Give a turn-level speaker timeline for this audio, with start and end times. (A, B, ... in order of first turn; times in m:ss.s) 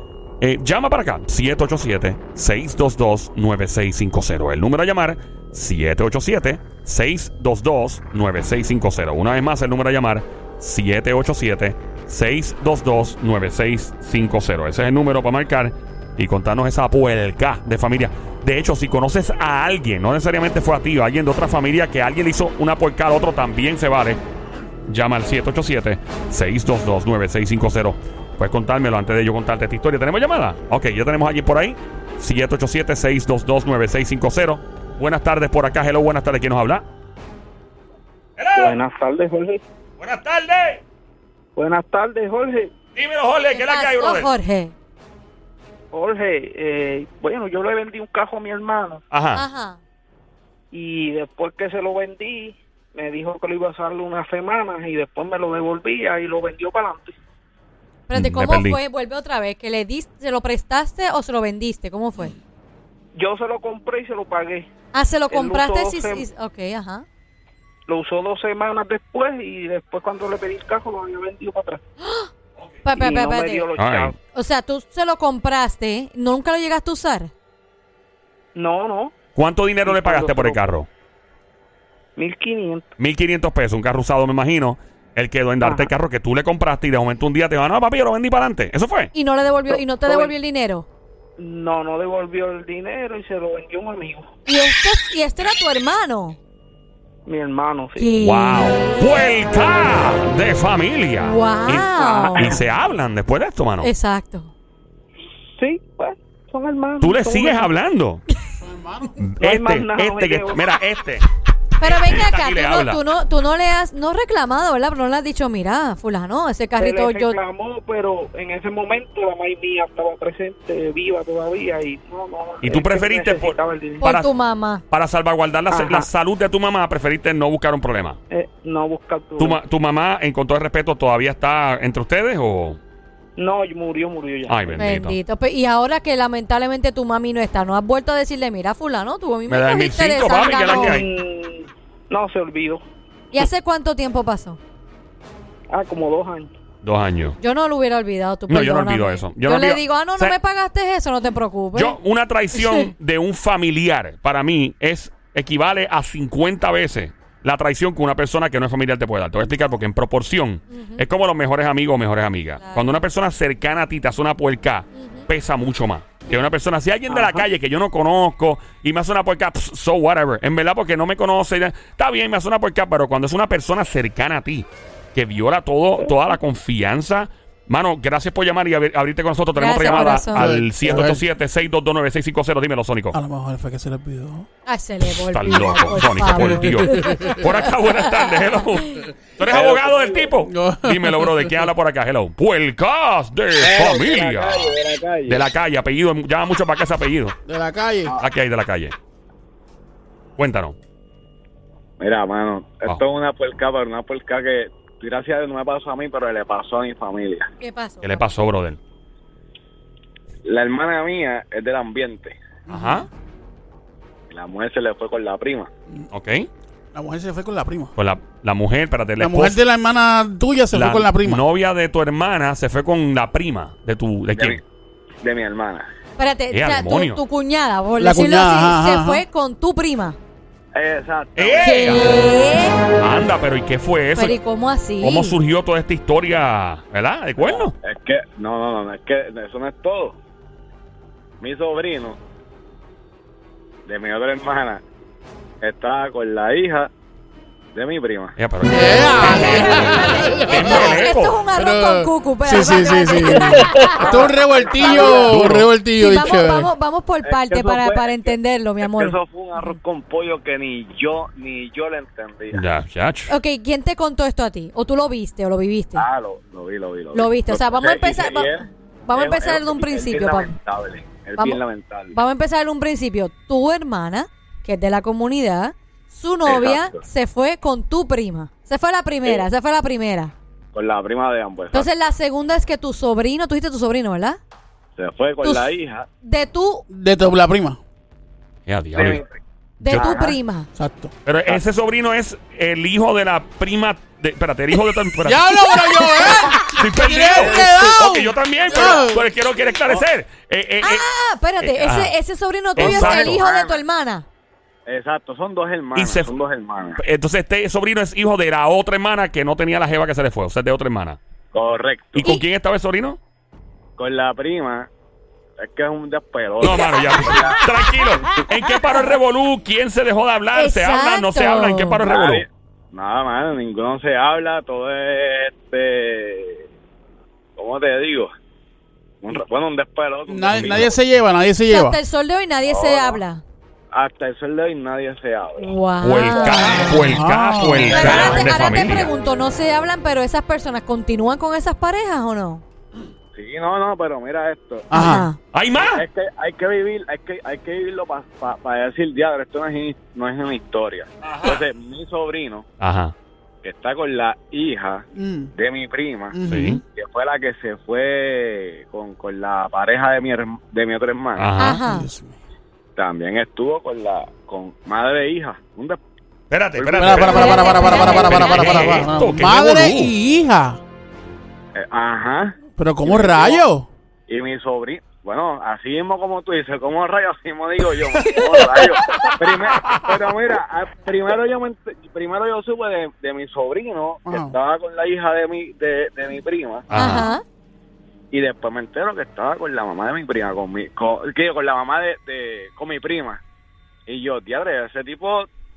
0:00.4-0:24.2 A
0:24.9-0:36.8 A
0:38.4-0:38.8 A
0:38.6-0:39.6 B
0:40.0-0:40.8 A
0:41.6-0:42.7 B
0:43.0-0:44.3 A
0:43.5-0:44.7 C
0:45.9-0:49.0 B
0:49.1-0:49.4 A
0:49.4-0:49.8 C
0:50.7-0:57.2 B
0:58.1-1:02.3 C
0:58.1-0:58.8 A
1:03.1-1:04.7 B
1:04.9-1:07.0 C
1:05.3-1:06.2 B
1:07.9-1:11.8 B
1:12.0-1:12.3 C
1:12.8-1:13.7 C
1:12.9-1:14.2 B
1:13.8-1:14.1 A
1:14.3-1:17.3 C
1:18.5-1:19.1 B
1:19.4-1:20.9 A
1:19.8-1:20.6 B
1:22.2-1:22.9 B
1:23.0-1:29.1 A
1:25.6-1:25.9 B
1:29.1-1:30.8 C
1:29.7-1:30.3 B
1:31.4-1:34.3 B
1:34.5-1:36.4 C
1:37.2-1:38.1 B
1:38.0-1:39.3 C
1:38.2-1:43.9 A
1:41.2-1:42.6 C
1:42.3-1:42.6 B
1:43.8-1:44.5 C
1:45.5-1:47.7 B
1:47.0-1:48.2 A
1:48.6-1:49.3 D
1:49.2-1:51.2 A
1:49.4-1:50.6 B
1:51.8-1:57.4 C
1:51.8-1:53.0 A
1:56.8-2:04.0 B
2:02.6-2:04.3 A
2:04.0-2:04.8 C
2:04.9-2:08.2 A
2:05.7-2:06.1 B
2:08.3-2:09.6 B
2:09.4-2:12.8 A
2:13.4-2:14.8 B
2:14.5-2:15.2 A
2:14.8-2:21.0 C
2:19.5-2:21.1 A
2:20.6-2:22.8 B
2:23.3-2:24.6 C
2:25.7-2:26.5 B
2:26.8-2:27.4 A
2:27.4-2:32.0 C
2:28.5-2:30.3 A
2:31.7-3:03.2 A
2:32.5-2:32.9 C
2:40.7-2:41.1 C
2:42.6-2:43.0 C
2:44.9-2:45.3 C
2:47.1-2:47.4 B
2:59.6-3:00.5 C
3:00.4-3:01.3 D
3:03.1-3:04.5 D
3:04.6-3:07.4 C
3:05.3-3:14.8 A
3:06.4-3:07.4 D
3:09.4-3:10.3 E
3:10.4-3:11.5 D
3:13.6-3:15.4 E
3:15.3-3:17.4 A
3:17.5-3:18.2 D
3:18.2-3:19.0 A
3:20.4-3:20.8 A
3:22.0-3:27.5 E
3:27.6-3:28.2 C
3:28.0-3:28.8 A
3:30.4-3:32.4 E
3:32.7-3:33.0 D
3:32.7-3:33.1 A
3:34.3-3:35.7 E
3:36.1-3:36.5 A
3:36.9-3:37.9 D
3:38.0-3:39.6 A
3:39.2-3:41.4 D
3:40.7-3:44.6 A
3:44.3-3:44.6 E
3:45.2-3:45.9 E
3:46.2-3:50.2 C
3:46.5-3:47.2 A
3:48.0-3:49.2 D
3:50.8-3:52.0 E
3:51.4-3:52.0 A
3:51.6-3:52.8 C
3:53.0-3:54.4 A
3:54.2-3:55.3 C
3:55.0-3:57.7 A
3:57.4-4:00.2 E
4:01.4-4:02.2 E
4:03.8-4:04.8 E
4:05.6-4:06.9 E
4:07.7-4:08.4 E
4:08.4-4:11.4 A
4:08.7-4:11.0 D
4:09.2-4:14.2 C
4:11.5-4:16.7 D
4:14.0-4:15.6 E
4:14.8-4:15.4 C
4:15.2-4:15.7 A
4:15.9-4:19.8 C
4:17.2-4:22.7 E
4:22.5-4:23.3 A
4:23.3-4:26.1 C
4:25.9-4:32.2 E
4:27.1-4:30.5 C
4:32.1-4:40.3 C
4:36.4-4:37.0 E
4:40.7-4:41.9 E
4:41.7-4:44.4 C
4:45.0-4:46.1 E
4:45.4-4:45.7 C
4:46.2-4:46.8 C
4:46.9-4:47.8 D
4:48.7-4:49.2 A
4:48.9-4:49.3 E
4:49.8-4:50.7 C
4:49.9-4:50.4 E
4:50.8-4:51.1 D
4:51.2-4:56.2 A
4:55.2-4:59.2 D
4:56.7-5:01.1 A
4:57.4-4:57.9 E
4:58.7-4:59.1 E
4:59.6-5:00.1 E
5:00.8-5:04.2 C
5:01.6-5:02.1 A
5:02.8-5:03.4 A
5:02.8-5:03.8 E
5:04.9-5:07.0 E
5:05.9-5:06.3 A
5:07.0-5:11.2 A
5:11.5-5:12.4 E
5:12.2-5:13.2 A
5:14.0-5:14.9 E
5:15.6-5:17.6 E
5:16.6-5:22.4 A
5:20.5-5:22.0 C
5:22.0-5:26.6 E
5:27.6-5:28.3 E
5:29.2-5:31.0 E
5:30.3-5:32.0 D
5:31.7-5:33.4 C
5:32.6-5:33.2 E
5:33.9-5:35.7 E
5:35.6-5:37.1 C
5:36.0-5:39.1 A
5:36.3-5:37.0 E
5:36.9-5:38.2 D
5:37.9-5:42.6 C
5:43.3-5:45.1 E
5:44.9-5:45.3 D
5:44.9-5:45.4 C
5:45.5-5:46.0 A
5:45.8-5:52.6 E
5:52.8-5:53.1 A
5:53.6-5:56.4 E
5:55.1-5:55.5 D
5:56.3-5:56.8 D
5:56.5-5:56.8 A
5:56.9-6:01.5 E
6:01.4-6:01.8 A
6:01.6-6:02.1 C
6:01.7-6:02.4 D
6:03.0-6:06.0 E
6:06.5-6:10.1 A
6:06.8-6:07.4 E
6:06.9-6:10.8 D
6:07.3-6:09.0 C
6:11.8-6:13.6 E
6:12.7-6:13.9 D
6:14.3-6:27.2 E
6:18.3-6:19.2 D
6:24.2-6:24.6 D
6:26.9-6:27.3 A
6:26.9-6:27.4 C
6:28.3-6:33.4 E
6:34.1-6:35.5 E